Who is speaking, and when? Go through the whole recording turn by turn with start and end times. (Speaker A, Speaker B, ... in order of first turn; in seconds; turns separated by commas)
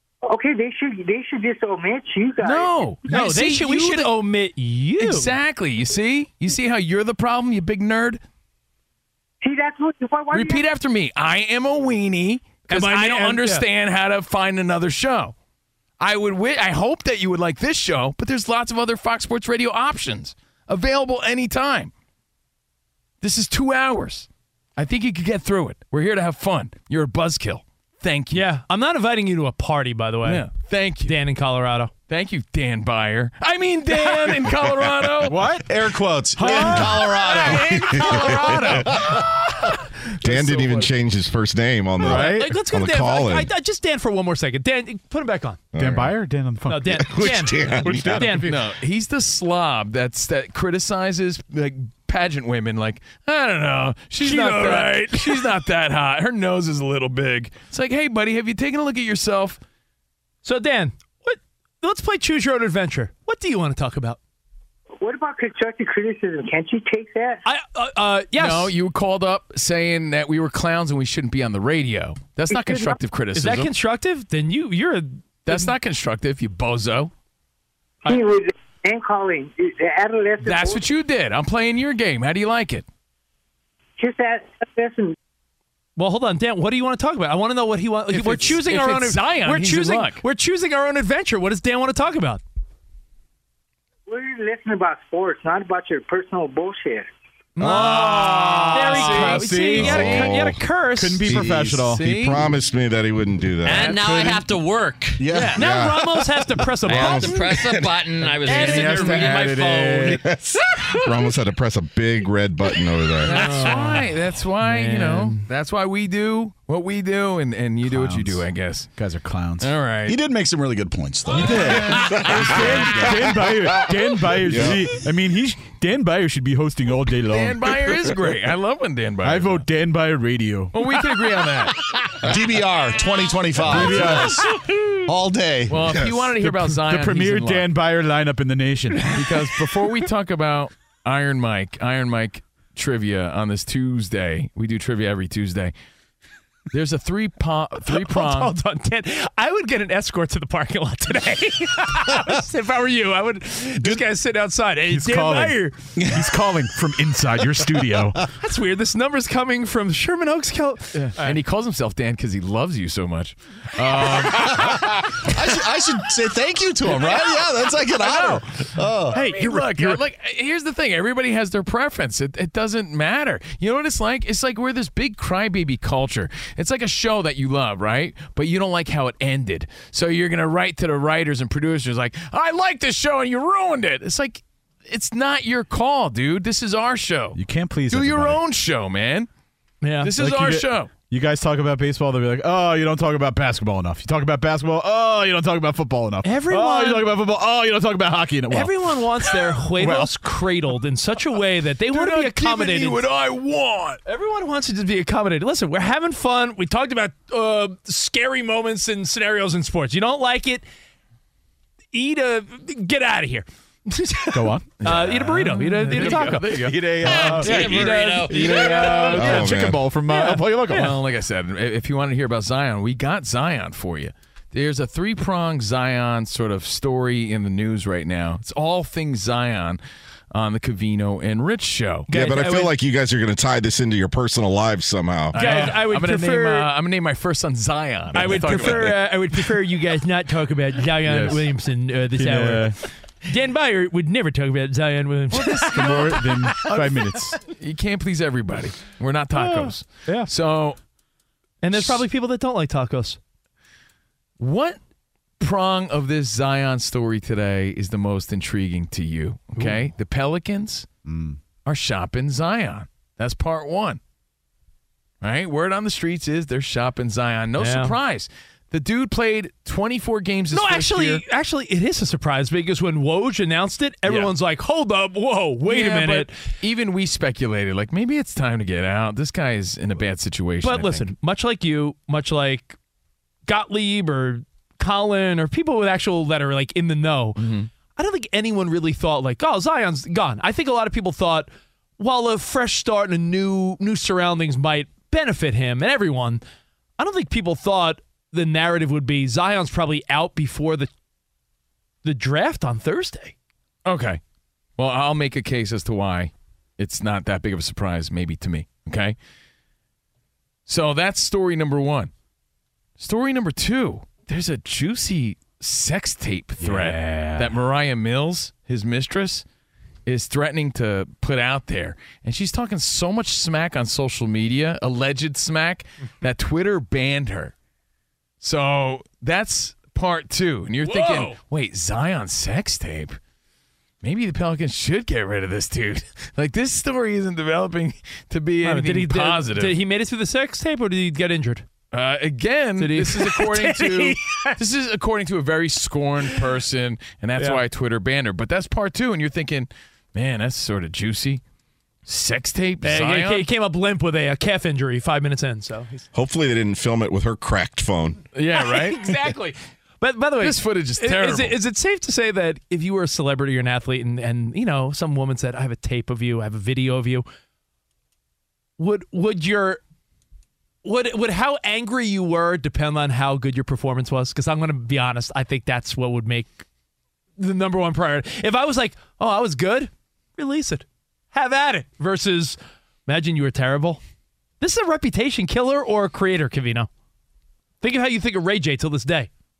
Speaker A: 0.2-3.1, Speaker B: 2.4-4.1, Speaker C: 3.1-5.3, Speaker B: 5.0-8.2, Speaker A: 9.4-10.6, Speaker B: 10.3-15.3, Speaker C: 12.7-13.6, Speaker B: 16.0-21.9, Speaker B: 23.2-28.5, Speaker C: 28.3-30.4, Speaker B: 30.2-31.2, Speaker C: 31.1-31.9, Speaker B: 32.1-35.6, Speaker C: 34.0-34.4, Speaker D: 35.2-35.6, Speaker E: 35.5-39.0, Speaker C: 36.4-39.1, Speaker F: 38.1-38.7, Speaker F: 40.2-43.5, Speaker E: 40.4-40.8, Speaker C: 42.0-45.6, Speaker D: 42.0-42.4, Speaker F: 45.7-46.2, Speaker D: 45.8-46.9, Speaker C: 46.7-48.6, Speaker F: 46.9-48.3, Speaker D: 47.9-48.3, Speaker B: 48.2-59.6, Speaker C: 54.2-55.5, Speaker C: 60.4-64.2, Speaker A: 65.0-67.4, Speaker C: 67.4-68.7, Speaker B: 68.3-73.7, Speaker A: 72.5-73.0, Speaker C: 73.3-75.7, Speaker B: 75.5-77.1, Speaker A: 78.0-80.8, Speaker B: 80.4-82.8, Speaker A: 84.0-85.2, Speaker C: 86.0-92.4, Speaker B: 88.1-90.2, Speaker A: 94.1-97.1, Speaker C: 97.6-101.4, Speaker B: 97.6-99.7, Speaker D: 98.7-100.3, Speaker F: 99.7-100.6, Speaker D: 101.0-102.0, Speaker F: 101.2-104.0, Speaker B: 101.3-102.5, Speaker G: 103.6-105.3, Speaker D: 103.8-104.4, Speaker E: 105.2-105.6, Speaker C: 105.3-107.5, Speaker F: 105.5-108.0, Speaker G: 106.8-110.2, Speaker C: 108.4-109.5, Speaker D: 108.4-110.2, Speaker F: 110.1-113.6, Speaker B: 113.2-118.9, Speaker D: 113.5-114.0, Speaker D: 114.6-115.3, Speaker D: 117.8-119.7, Speaker B: 119.6-120.2, Speaker E: 120.0-122.4, Speaker D: 121.3-128.1, Speaker B: 121.4-123.1, Speaker F: 122.0-123.8, Speaker F: 124.4-124.9, Speaker B: 127.3-129.6, Speaker D: 129.2-130.8, Speaker B: 130.7-131.8, Speaker E: 132.2-135.8, Speaker D: 133.7-134.4, Speaker B: 133.7-134.2, Speaker B: 135.7-137.7, Speaker D: 135.9-139.2, Speaker B: 139.1-145.7, Speaker B: 146.7-148.6, Speaker C: 147.9-155.9, Speaker D: 154.9-155.6, Speaker D: 156.1-158.2, Speaker C: 158.4-161.4, Speaker B: 160.9-164.8, Speaker E: 164.3-169.2, Speaker B: 168.0-168.4, Speaker C: 169.1-170.0, Speaker B: 169.1-187.4, Speaker D: 187.3-188.4, Speaker B: 187.9-189.3, Speaker C: 189.8-190.1, Speaker B: 190.0-190.9, Speaker D: 190.2-199.0, Speaker C: 196.2-197.1, Speaker C: 198.5-203.0, Speaker D: 199.8-200.1, Speaker B: 201.9-204.0, Speaker C: 204.1-210.7, Speaker C: 211.9-220.9, Speaker D: 214.3-214.7, Speaker B: 214.8-217.5, Speaker D: 216.0-216.2, Speaker G: 217.0-219.1, Speaker D: 217.0-220.9, Speaker F: 219.1-219.8, Speaker B: 220.7-229.8, Speaker B: 230.3-232.1, Speaker C: 232.1-232.7, Speaker F: 232.1-235.4, Speaker B: 235.3-239.0, Speaker C: 235.3-236.7, Speaker C: 238.1-246.6, Speaker D: 238.2-238.7, Speaker D: 242.1-242.8, Speaker B: 245.3-250.8, Speaker D: 245.6-247.4, Speaker C: 249.3-250.3, Speaker C: 251.6-253.2, Speaker B: 251.7-252.0, Speaker B: 254.4-254.8, Speaker B: 255.4-260.9, Speaker D: 261.1-261.4, Speaker B: 261.6-264.0, Speaker B: 265.2-271.2, Speaker C: 267.6-267.9, Speaker C: 270.5-276.3, Speaker B: 274.1-274.3, Speaker B: 275.7-281.1, Speaker C: 280.6-282.8, Speaker C: 283.4-296.4, Speaker B: 287.4-287.7, Speaker C: 297.0-300.9, Speaker C: 302.0-303.3, Speaker B: 303.8-304.2, Speaker B: 304.8-309.1, Speaker B: 310.6-312.1, Speaker B: 313.0-319.4, Speaker D: 316.6-317.4, Speaker B: 320.1-327.5, Speaker B: 328.4-333.2, Speaker C: 330.8-331.4, Speaker B: 334.0-339.8, Speaker C: 338.6-341.6, Speaker B: 341.9-351.4, Speaker C: 342.8-344.6, Speaker C: 347.4-347.6, Speaker B: 352.1-353.5, Speaker C: 352.8-356.1, Speaker F: 356.1-358.2, Speaker B: 358.3-359.2, Speaker C: 358.5-367.2, Speaker B: 360.4-361.6, Speaker C: 368.8-369.8, Speaker C: 370.8-376.6, Speaker C: 377.4-384.0, Speaker C: 384.6-386.9, Speaker C: 387.8-389.3